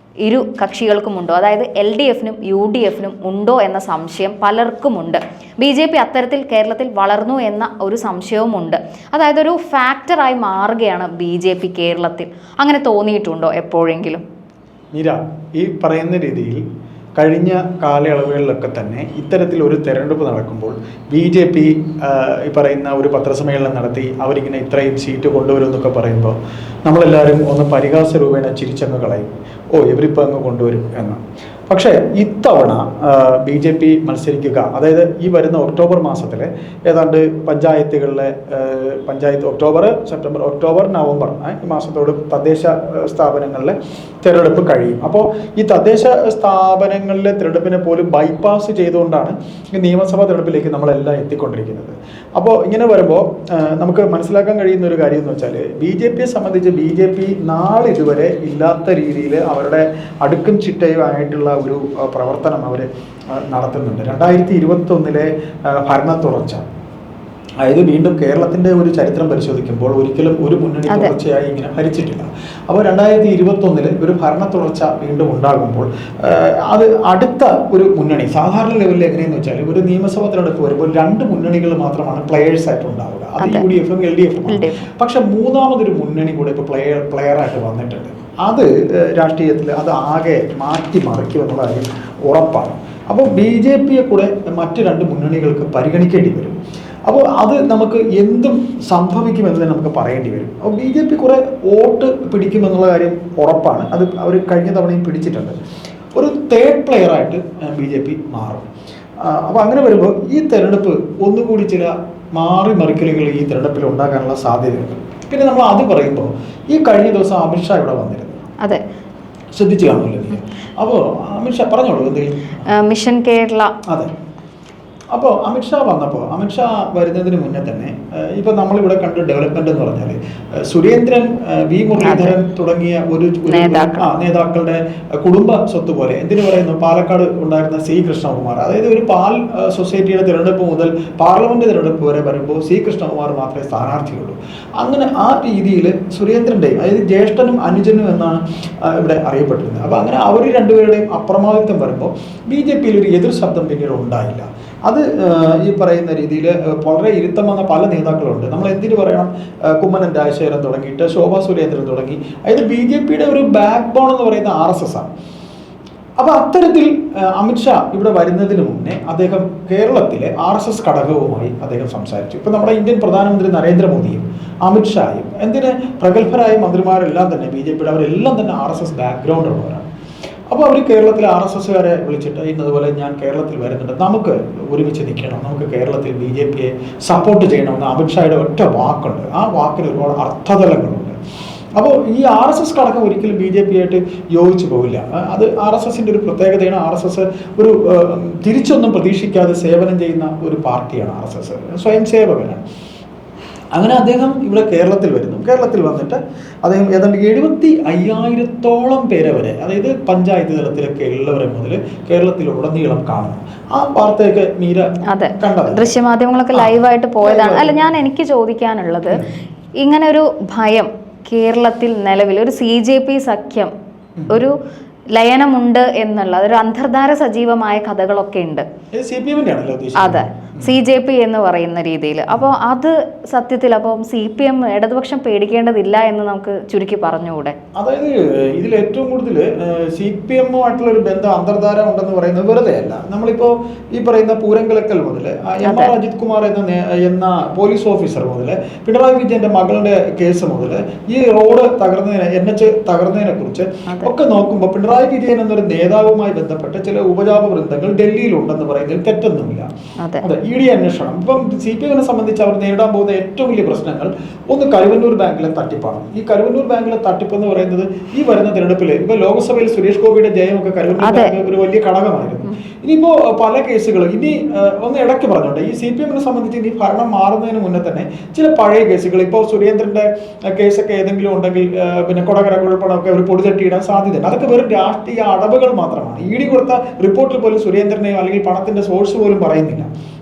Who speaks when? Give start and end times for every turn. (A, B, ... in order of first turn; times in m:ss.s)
0:00.2-0:14.2 A
0:14.9-0:16.6 B
0:17.2-1:06.6 B
1:07.6-1:36.6 B
1:10.9-1:11.1 A
1:23.4-1:23.7 A
1:24.5-1:24.8 A
1:37.1-1:45.6 B
1:46.2-1:48.7 B
1:49.2-1:58.4 B
1:59.5-2:02.6 B
2:02.7-2:03.7 A
2:05.1-2:10.2 B
2:10.7-2:45.1 B
2:12.0-2:12.4 A
2:13.5-2:14.1 A
2:46.2-2:59.8 B
3:00.5-3:11.2 B
3:11.8-3:22.6 B
3:23.7-3:34.9 B
3:35.1-3:39.2 A
3:35.4-3:35.9 B
3:36.5-3:38.0 B
3:39.8-3:43.7 A
3:44.3-3:44.6 A
3:45.1-3:48.6 A
3:48.9-3:50.8 B
3:50.0-3:57.6 A
3:57.8-4:19.7 B
4:05.6-4:05.9 A
4:20.0-4:20.3 A
4:20.2-4:49.9 B
4:31.0-4:31.3 A